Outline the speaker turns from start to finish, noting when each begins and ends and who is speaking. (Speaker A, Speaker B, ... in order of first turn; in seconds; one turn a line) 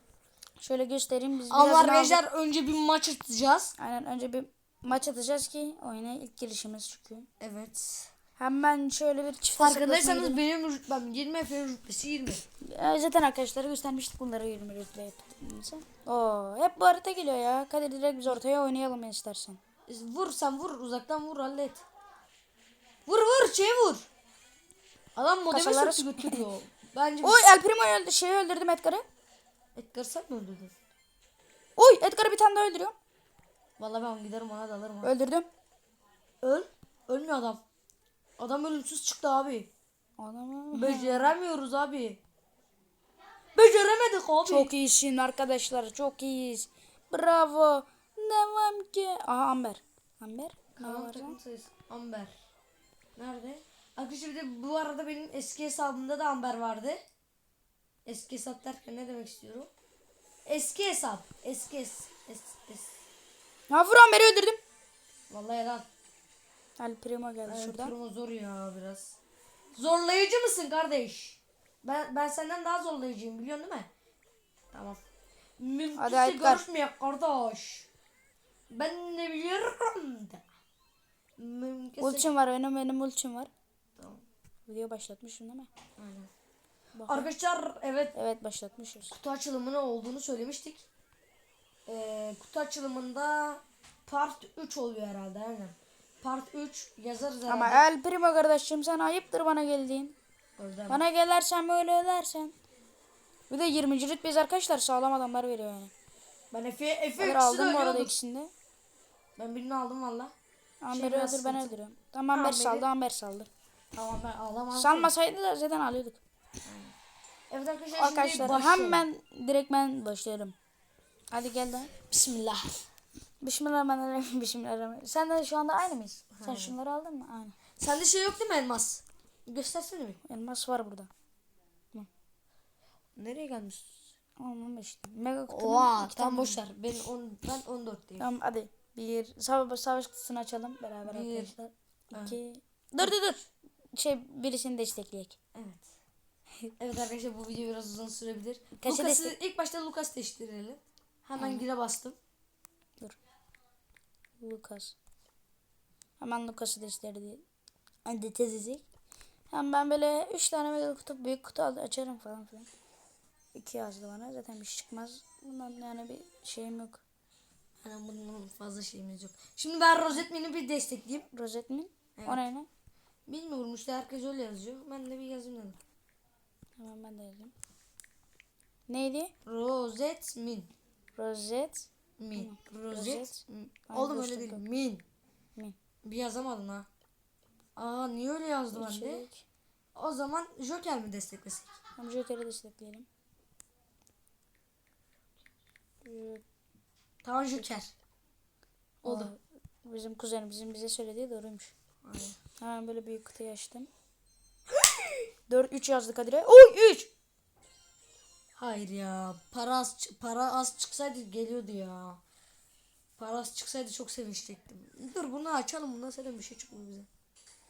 Speaker A: 0.6-2.2
Speaker B: 1.5-3.7
Speaker A: 3.8-7.3
Speaker B: 7.4-8.1
Speaker A: 8.4-10.4
Speaker B: 9.6-12.4
Speaker A: 12.6-19.6
Speaker B: 19.9-21.8
Speaker B: 23.1-24.1
Speaker B: 25.2-27.5
Speaker A: 25.5-26.4
Speaker A: 27.2-29.1
Speaker B: 29.8-30.8
Speaker A: 31.8-33.0
Speaker B: 33.8-35.1
Speaker A: 35.0-35.5
Speaker B: 36.4-37.6
Speaker B: 38.4-39.7
Speaker A: 40.2-41.3
Speaker B: 40.7-42.2
Speaker B: 43.5-44.7
Speaker A: 44.5-51.4
Speaker B: 50.8-52.3
Speaker B: 53.2-57.0
Speaker B: 58.1-59.7
Speaker B: 60.5-63.0
Speaker A: 63.7-64.6
Speaker B: 65.3-65.9
Speaker A: 66.8-68.0
Speaker B: 67.5-69.2
Speaker B: 69.7-73.9
Speaker B: 74.7-75.0
Speaker B: 75.6-77.9
Speaker A: 76.0-76.7
Speaker B: 78.7-80.4
Speaker B: 81.4-82.3
Speaker A: 82.0-83.5
Speaker B: 84.0-84.2
Speaker A: 84.7-85.7
Speaker B: 86.0-86.3
Speaker A: 87.0-87.3
Speaker B: 87.1-88.2
Speaker A: 88.2-89.1
Speaker B: 89.1-90.8
Speaker B: 91.9-97.8
Speaker A: 97.5-100.1
Speaker B: 100.6-101.0
Speaker A: 100.9-102.5
Speaker A: 103.5-105.9
Speaker B: 106.5-108.2
Speaker A: 107.2-108.5
Speaker B: 109.4-110.3
Speaker A: 110.8-113.5
Speaker B: 110.9-111.8
Speaker B: 112.3-112.9
Speaker B: 113.9-115.1
Speaker A: 114.7-116.2
Speaker B: 116.7-116.9
Speaker B: 117.5-119.1
Speaker A: 118.0-120.5
Speaker A: 121.3-121.9
Speaker B: 122.1-122.8
Speaker A: 123.4-127.6
Speaker B: 126.3-126.8
Speaker B: 127.8-130.2
Speaker A: 130.2-131.1
Speaker B: 133.2-133.9
Speaker A: 134.4-136.6
Speaker B: 135.5-138.3
Speaker A: 138.2-141.6
Speaker B: 141.1-142.4
Speaker A: 142.1-145.4
Speaker B: 145.5-145.9
Speaker B: 146.8-152.2
Speaker A: 148.8-149.4
Speaker A: 151.4-151.6
Speaker A: 154.4-154.9
Speaker A: 156.2-157.4
Speaker A: 158.1-158.8
Speaker A: 159.5-162.7
Speaker A: 163.5-167.0
Speaker B: 167.8-171.3
Speaker A: 171.3-172.7
Speaker B: 172.2-172.4
Speaker B: 173.3-175.8
Speaker A: 176.8-177.5
Speaker A: 178.9-179.3
Speaker B: 179.5-180.7
Speaker A: 181.2-184.6
Speaker B: 182.2-185.0
Speaker B: 186.0-186.9
Speaker B: 187.8-189.3
Speaker A: 188.7-189.4
Speaker B: 189.9-191.7
Speaker A: 192.0-193.1
Speaker A: 196.0-196.4
Speaker B: 197.2-197.9
Speaker A: 199.0-201.7
Speaker B: 199.1-199.3
Speaker B: 202.1-202.4
Speaker A: 202.6-203.9
Speaker B: 204.8-205.2
Speaker A: 205.5-207.1
Speaker B: 208.6-212.2
Speaker B: 213.2-217.1